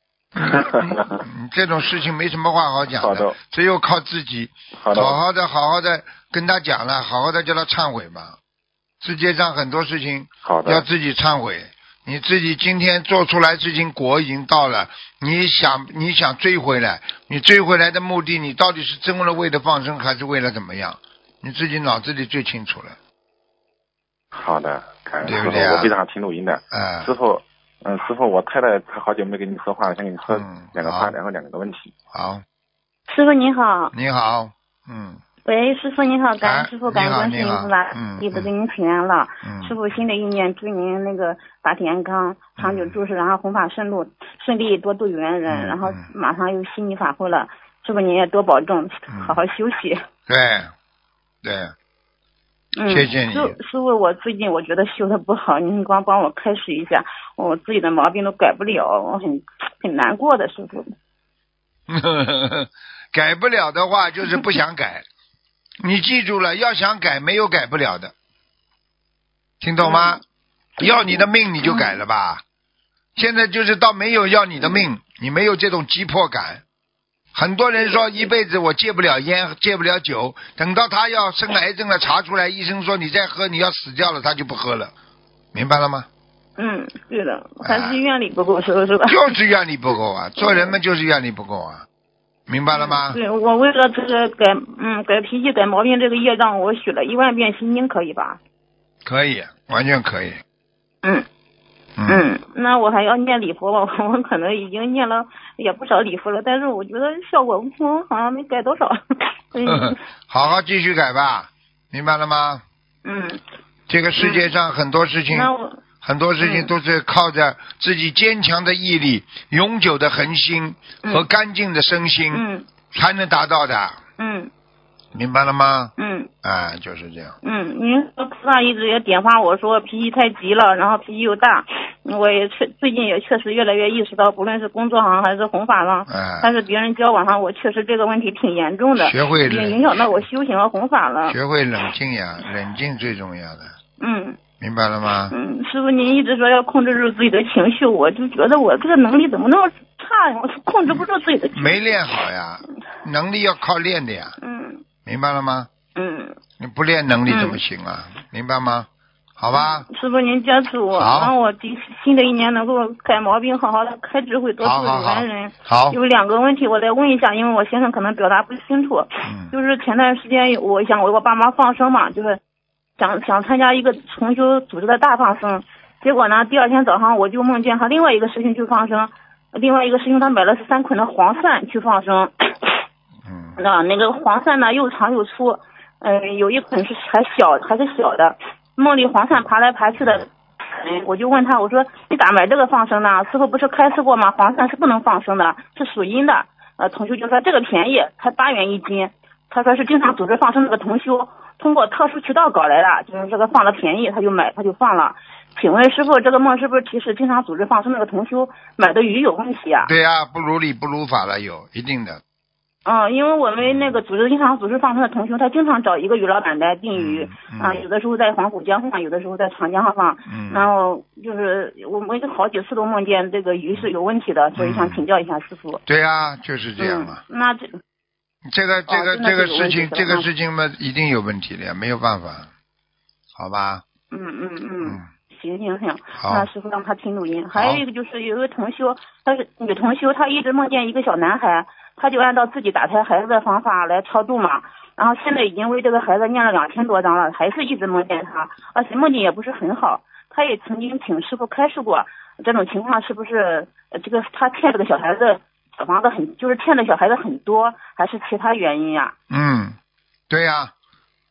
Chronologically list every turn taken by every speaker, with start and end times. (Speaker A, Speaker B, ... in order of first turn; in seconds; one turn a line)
Speaker A: 0.3-8.4
Speaker B: 0.4-1.2
Speaker B: 2.9-3.4
Speaker B: 4.7-5.2
Speaker A: 9.0-23.0
Speaker B: 10.4-10.8
Speaker B: 24.3-31.9
Speaker A: 25.2-25.9
Speaker A: 26.7-27.1
Speaker A: 30.3-31.1
Speaker A: 32.1-32.4
Speaker C: 33.1-33.9
Speaker A: 33.9-35.2
Speaker C: 35.4-50.0
Speaker A: 36.4-38.5
Speaker A: 39.4-39.8
Speaker A: 42.6-42.9
Speaker A: 45.5-46.0
Speaker A: 49.1-49.4
Speaker A: 50.3-50.7
Speaker A: 51.4-51.7
Speaker C: 52.7-60.9
Speaker A: 52.9-53.6
Speaker A: 61.9-65.0
Speaker A: 65.8-68.1
Speaker A: 69.6-70.2
Speaker C: 69.8-70.2
Speaker A: 70.8-72.4
Speaker C: 70.8-72.0
Speaker A: 73.2-76.6
Speaker A: 77.3-84.9
Speaker C: 77.8-78.2
Speaker A: 85.5-86.1
Speaker C: 86.6-89.3
Speaker A: 87.6-88.0
Speaker A: 89.1-91.8
Speaker C: 90.4-90.8
Speaker A: 92.5-93.2
Speaker C: 92.7-98.4
Speaker A: 99.0-100.4
Speaker A: 102.0-102.2
Speaker C: 102.0-109.0
Speaker C: 109.5-110.0
Speaker A: 109.7-112.6
Speaker C: 113.0-113.4
Speaker A: 113.9-115.5
Speaker C: 114.2-114.5
Speaker C: 115.3-115.8
Speaker A: 116.0-124.0
Speaker C: 116.4-116.7
Speaker C: 122.3-122.7
Speaker C: 124.2-124.5
Speaker A: 125.1-127.3
Speaker C: 126.0-126.3
Speaker C: 127.4-141.4
Speaker A: 136.1-136.5
Speaker A: 139.0-140.0
Speaker A: 141.2-143.7
Speaker C: 144.0-144.4
Speaker A: 144.6-145.3
Speaker C: 145.3-152.1
Speaker A: 150.9-154.4
Speaker C: 154.4-154.8
Speaker A: 155.0-155.7
Speaker C: 155.9-156.4
Speaker A: 156.6-159.9
Speaker C: 157.3-157.6
Speaker C: 159.5-172.4
Speaker A: 160.9-161.3
Speaker A: 164.6-166.0
Speaker A: 169.2-169.5
Speaker C: 173.0-182.8
Speaker A: 183.2-183.6
Speaker C: 183.6-209.9
Speaker A: 209.8-212.2
Speaker C: 212.8-225.8
Speaker A: 213.6-214.0
Speaker A: 216.9-217.8
Speaker A: 220.3-220.7
Speaker A: 224.6-225.0
Speaker A: 225.8-227.2
Speaker C: 226.8-227.8
Speaker A: 228.5-232.5
Speaker C: 228.9-230.3
Speaker A: 233.3-233.8
Speaker C: 234.1-259.1
Speaker A: 236.2-236.5
Speaker A: 237.5-237.8
Speaker A: 259.3-259.8
Speaker A: 260.3-260.7